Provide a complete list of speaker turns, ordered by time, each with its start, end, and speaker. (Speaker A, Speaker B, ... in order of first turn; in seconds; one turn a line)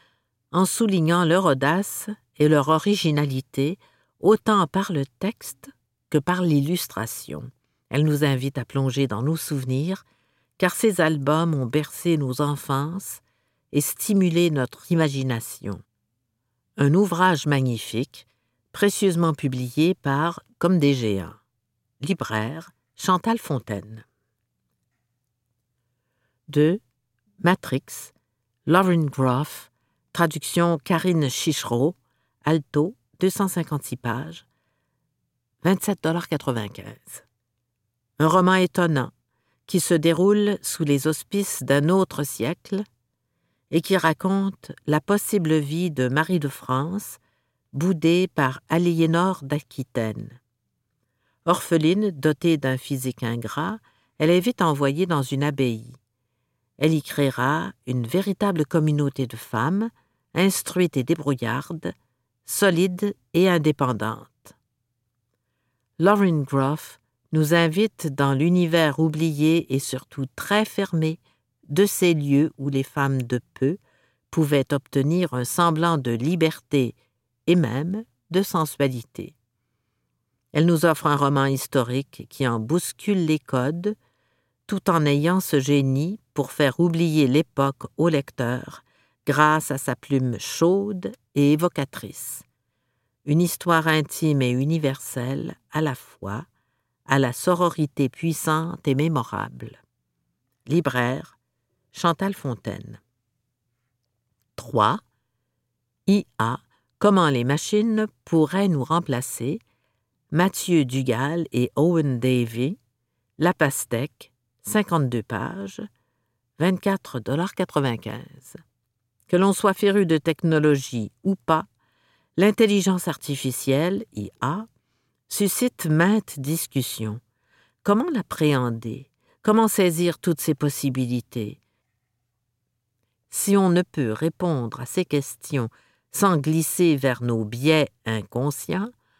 Speaker A: 0.5-10.0
Speaker A: 10.6-15.8
Speaker A: 16.8-21.4
Speaker A: 22.0-24.0
Speaker A: 26.5-26.8
Speaker A: 27.4-28.1
Speaker A: 28.7-34.4
Speaker A: 35.6-37.2
Speaker A: 38.2-39.1
Speaker A: 39.7-42.9
Speaker A: 43.7-47.2
Speaker A: 47.7-50.4
Speaker A: 51.4-56.0
Speaker A: 56.8-61.9
Speaker A: 62.5-64.5
Speaker A: 66.0-73.8
Speaker A: 74.3-77.0
Speaker A: 77.5-79.3
Speaker A: 80.5-84.0
Speaker A: 84.7-92.4
Speaker A: 93.2-96.5
Speaker A: 97.1-99.8
Speaker A: 100.7-101.3
Speaker A: 101.9-103.0
Speaker A: 104.6-105.0
Speaker A: 106.1-109.6
Speaker A: 110.3-112.8
Speaker A: 113.4-115.9
Speaker A: 116.6-118.6
Speaker A: 119.3-121.7
Speaker A: 122.4-124.7
Speaker A: 125.3-127.2
Speaker A: 127.8-131.6
Speaker A: 133.3-138.9